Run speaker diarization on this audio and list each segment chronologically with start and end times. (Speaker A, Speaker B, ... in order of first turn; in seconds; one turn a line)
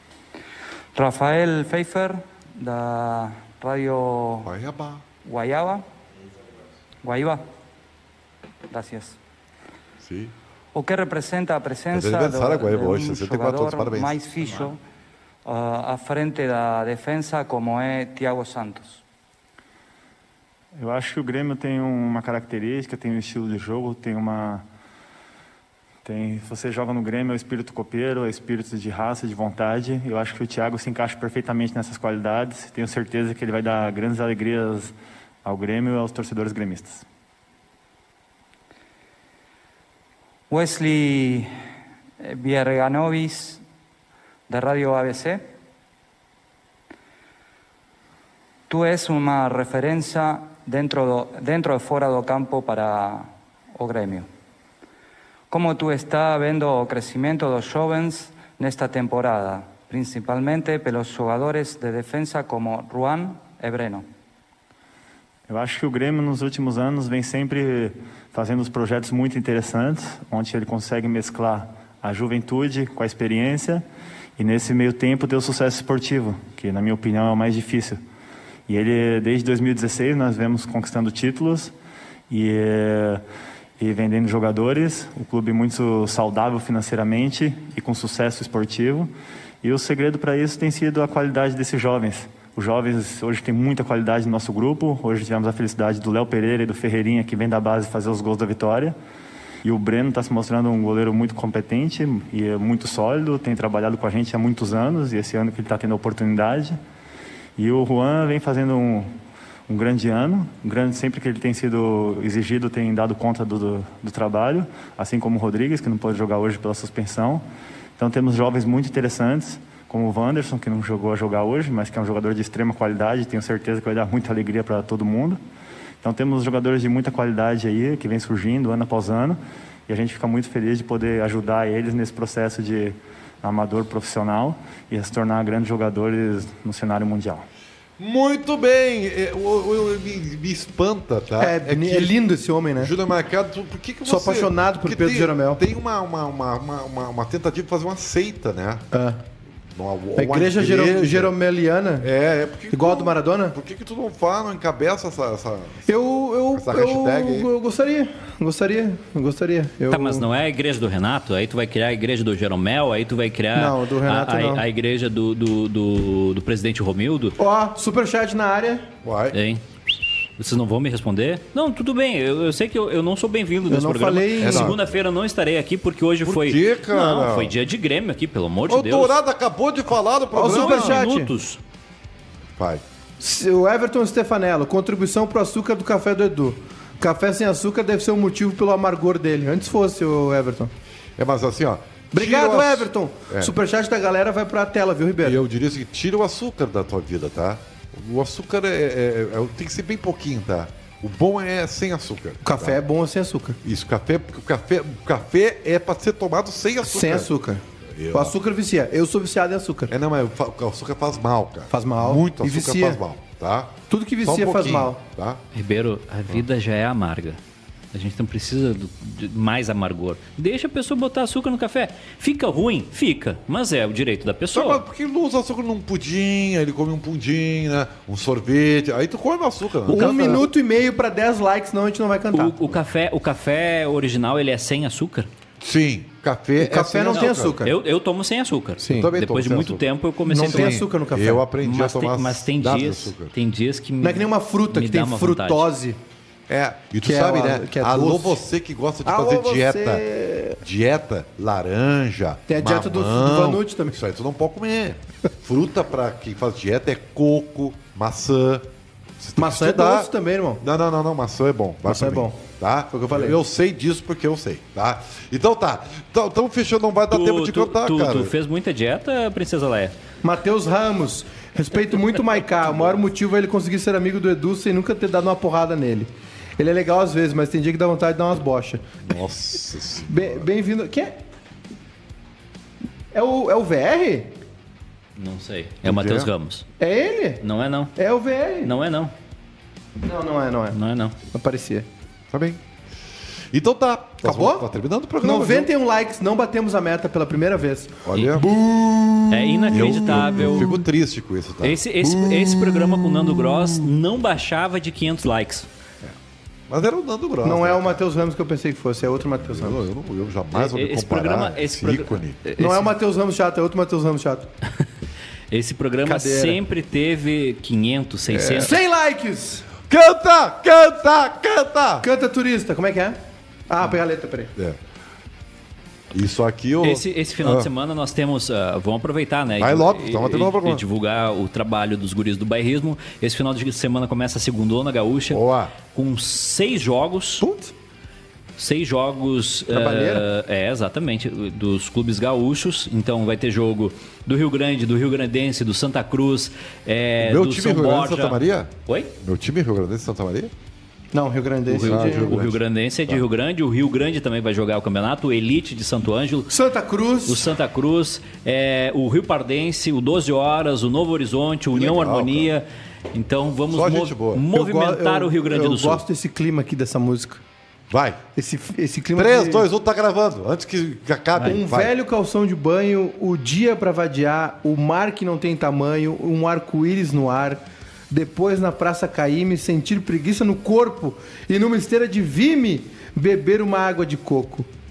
Speaker A: 0.9-4.5
Speaker B: 4.4-5.0
Speaker A: 5.2-5.8
Speaker A: 7.0-7.4
Speaker A: 8.7-9.2
Speaker B: 10.0-10.3
Speaker A: 10.7-14.8
Speaker B: 11.9-14.2
Speaker A: 15.4-19.0
Speaker C: 20.8-24.6
Speaker C: 26.0-37.0
Speaker A: 40.5-41.5
Speaker A: 42.2-43.6
Speaker A: 44.5-45.4
Speaker A: 48.7-54.3
Speaker A: 55.5-64.0
Speaker C: 65.5-73.8
Speaker C: 74.4-78.0
Speaker C: 78.7-81.7
Speaker C: 82.3-83.2
Speaker C: 83.8-89.1
Speaker C: 89.6-99.0
Speaker C: 99.6-106.8
Speaker C: 107.6-109.1
Speaker C: 109.7-117.4
Speaker C: 118.0-125.4
Speaker C: 126.0-137.4
Speaker B: 138.0-142.1
Speaker D: 141.4-142.9
Speaker B: 142.8-148.8
Speaker D: 144.0-145.6
Speaker D: 148.9-149.2
Speaker B: 149.7-151.3
Speaker D: 150.2-152.1
Speaker B: 152.0-155.9
Speaker D: 152.7-153.6
Speaker D: 155.8-160.2
Speaker B: 156.5-157.5
Speaker E: 159.9-167.3
Speaker D: 163.5-164.6
Speaker D: 167.4-168.9
Speaker B: 169.0-169.4
Speaker E: 169.3-169.6
Speaker E: 170.4-179.2
Speaker D: 173.7-174.7
Speaker B: 174.4-174.8
Speaker B: 176.2-177.6
Speaker B: 178.7-181.0
Speaker D: 180.3-181.3
Speaker E: 180.5-181.6
Speaker B: 182.6-182.8
Speaker D: 183.2-190.7
Speaker B: 191.2-193.5
Speaker D: 192.1-195.4
Speaker B: 195.2-202.8
Speaker D: 202.4-203.6
Speaker B: 203.6-207.3
Speaker D: 206.8-207.6
Speaker B: 207.9-208.4
Speaker D: 208.1-209.9
Speaker B: 209.9-215.4
Speaker D: 211.7-213.0
Speaker D: 213.9-215.0
Speaker E: 215.5-217.4
Speaker E: 217.9-224.8
Speaker B: 224.5-230.4
Speaker D: 229.9-232.6
Speaker E: 229.9-230.5
Speaker E: 232.3-235.3
Speaker B: 235.6-237.6
Speaker D: 236.6-237.7
Speaker E: 237.1-240.9
Speaker D: 238.8-239.1
Speaker B: 238.8-239.8
Speaker D: 240.2-241.5
Speaker B: 240.4-243.3
Speaker E: 241.6-245.7
Speaker D: 244.0-246.0
Speaker B: 246.5-250.0
Speaker D: 247.0-248.4
Speaker D: 249.0-250.6
Speaker B: 250.6-260.1
Speaker D: 252.5-254.0
Speaker D: 259.4-260.6
Speaker B: 260.6-268.3
Speaker D: 261.8-262.4
Speaker D: 262.9-263.4
Speaker E: 267.1-269.9
Speaker D: 270.2-278.8
Speaker B: 279.0-280.4
Speaker D: 280.1-281.1
Speaker D: 283.1-284.3
Speaker E: 285.1-286.7
Speaker B: 285.8-286.3
Speaker D: 286.8-287.4
Speaker E: 287.4-287.9
Speaker D: 287.9-288.7
Speaker E: 288.6-289.1
Speaker D: 290.0-290.8
Speaker E: 290.7-291.1
Speaker D: 291.3-291.9
Speaker B: 292.3-292.6
Speaker B: 293.5-295.7
Speaker D: 294.2-294.6
Speaker D: 295.2-300.6
Speaker B: 298.0-298.5
Speaker E: 299.3-300.7
Speaker B: 299.7-303.9
Speaker E: 301.6-305.7
Speaker B: 306.7-308.1
Speaker D: 307.4-309.8
Speaker B: 309.3-312.4
Speaker E: 310.5-312.9
Speaker D: 312.6-314.5
Speaker E: 315.5-318.7
Speaker D: 316.0-316.6
Speaker B: 318.3-318.7
Speaker D: 318.6-319.6
Speaker B: 319.9-322.1
Speaker D: 322.0-323.2
Speaker D: 323.7-324.5
Speaker B: 326.1-327.7
Speaker E: 326.8-337.4
Speaker B: 329.6-330.8
Speaker B: 335.3-335.7
Speaker D: 337.4-337.7
Speaker E: 338.6-349.1
Speaker D: 339.7-340.2
Speaker B: 347.2-350.5
Speaker D: 351.1-352.3
Speaker E: 351.7-356.5
Speaker B: 351.8-353.2
Speaker D: 356.5-357.4
Speaker E: 357.2-366.0
Speaker B: 361.7-362.5
Speaker B: 363.7-364.4
Speaker D: 364.5-367.4
Speaker B: 367.9-368.2
Speaker D: 368.4-369.6
Speaker B: 369.1-371.9
Speaker D: 371.4-384.7